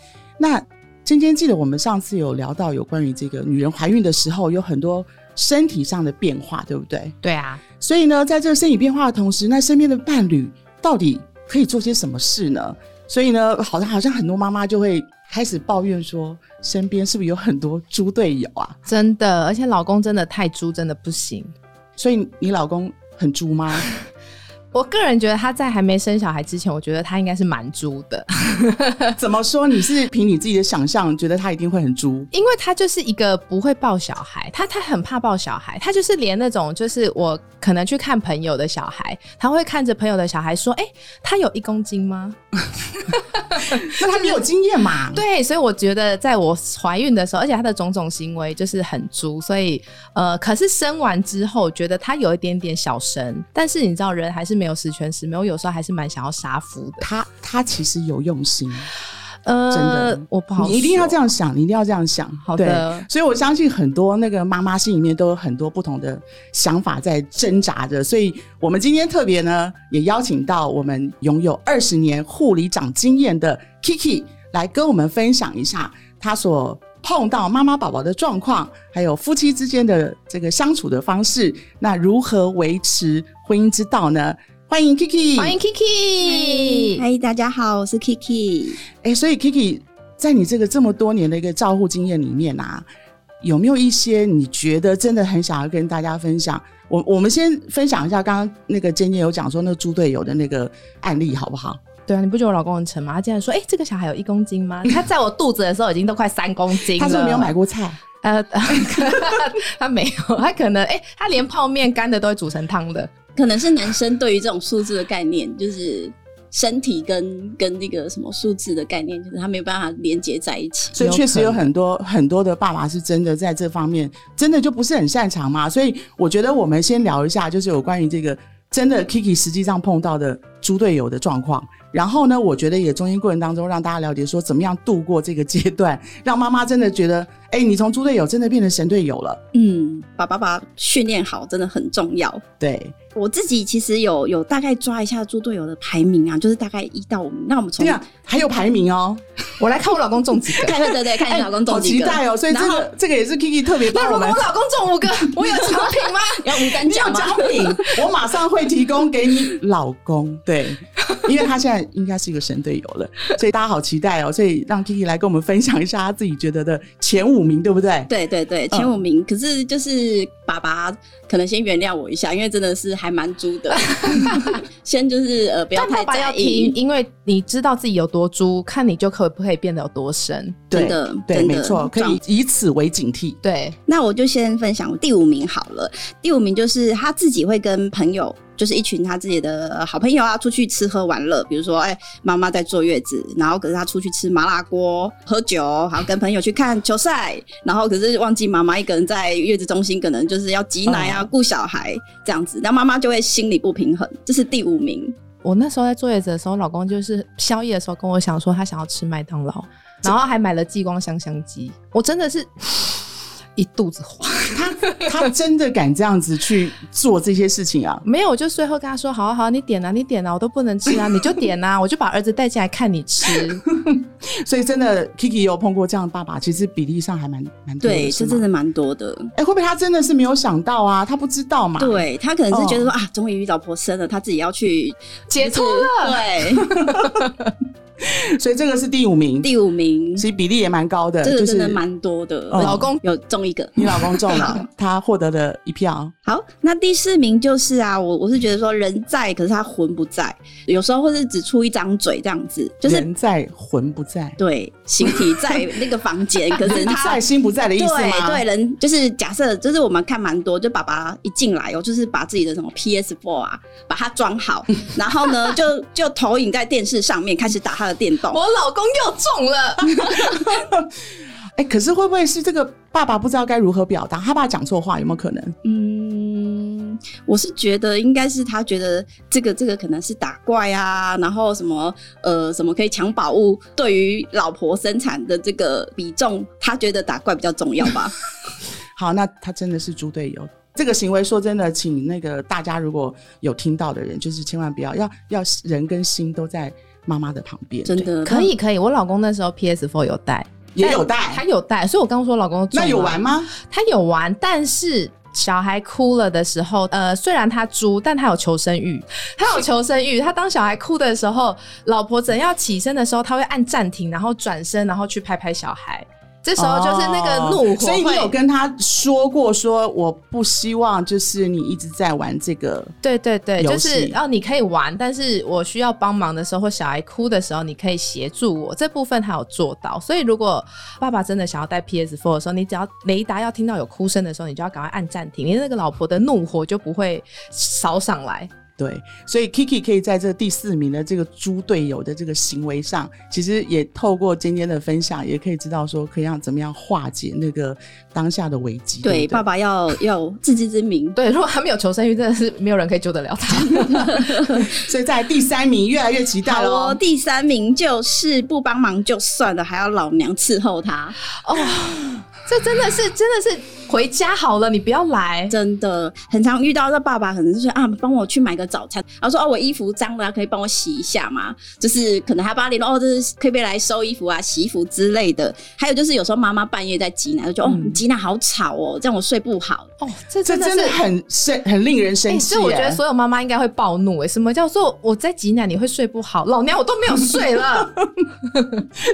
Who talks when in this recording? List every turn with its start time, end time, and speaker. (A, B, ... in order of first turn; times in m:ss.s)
0:00.4-0:07.2 A
0:07.2-0:07.6 B
0:07.8-0:18.8 A
0:18.8-0:21.5 B
0:22.0-0:23.9 A
0:24.7-0:29.1 B
0:29.2-0:32.3 A
0:32.3-0:42.4 B
0:43.1-0:44.4 B
0:43.8-0:45.2 A
0:45.1-0:57.1 B
0:57.0-0:58.9 A
0:59.4-1:01.2 B
0:59.7-1:25.6 A
1:02.4-1:03.1 B
1:25.4-1:27.0 B
1:26.2-1:28.8 C
1:29.0-1:32.8 A
1:33.4-1:41.8 A
1:42.0-1:47.5 B
1:46.9-1:48.0 A
1:48.2-1:53.1 B
1:53.4-2:01.0 C
2:00.9-2:19.4 A
2:01.0-2:01.7 B
2:19.5-2:22.4 C
2:22.6-2:23.0 A
2:23.1-2:28.0 C
2:27.8-2:29.2 A
2:29.6-2:30.8 B
2:30.6-2:32.9 C
2:30.7-2:34.4 A
2:33.9-2:36.8 B
2:35.4-2:36.0 A
2:36.4-2:37.7 C
2:36.8-2:48.1 A
2:37.6-2:37.9 B
2:48.1-2:56.7 C
2:48.7-2:49.0 A
2:53.7-2:54.6 B
2:55.7-3:00.6 B
3:00.7-3:03.4 A
3:00.7-3:02.2 C
3:03.4-3:03.8 B
3:03.9-3:25.2 C
3:20.9-3:21.3 A
3:25.4-3:35.2 B
3:34.5-3:38.0 A
3:38.0-3:43.6 B
3:43.7-3:48.5 A
3:47.8-3:49.3 C
3:49.3-3:52.9 A
3:51.8-3:56.6 C
3:55.3-3:57.5 B
3:58.0-3:59.5 A
3:59.4-4:00.2 C
4:00.2-4:01.8 A
4:01.2-4:04.6 C
4:02.5-4:02.8 A
4:02.6-4:03.0 B
4:03.8-4:06.1 A
4:06.2-4:13.0 C
4:12.8-4:14.4 A
4:14.4-4:17.2 C
4:16.6-4:18.4 A
4:17.8-4:28.4 C
4:28.3-4:30.4 B
4:30.2-4:30.9 A
4:31.6-4:35.5 A
4:35.6-4:48.2 C
4:49.0-4:58.1 A
4:57.9-4:58.5 C
4:58.2-5:18.3 B
5:00.7-5:01.4 A
5:02.7-5:03.5 A
5:16.6-5:22.9 A
5:23.0-5:38.5 B
5:23.6-5:24.2 A
5:38.8-5:49.4 A
5:49.0-5:51.2 C
5:51.2-5:54.6 B
5:54.1-5:54.6 C
5:54.6-5:57.0 A
5:56.4-6:01.2 C
6:01.4-6:05.5 B
6:05.5-6:19.9 C
6:17.6-6:18.0 A
6:20.0-6:21.0 B
6:20.4-6:23.0 A
6:22.3-6:27.9 B
6:28.5-6:28.8 B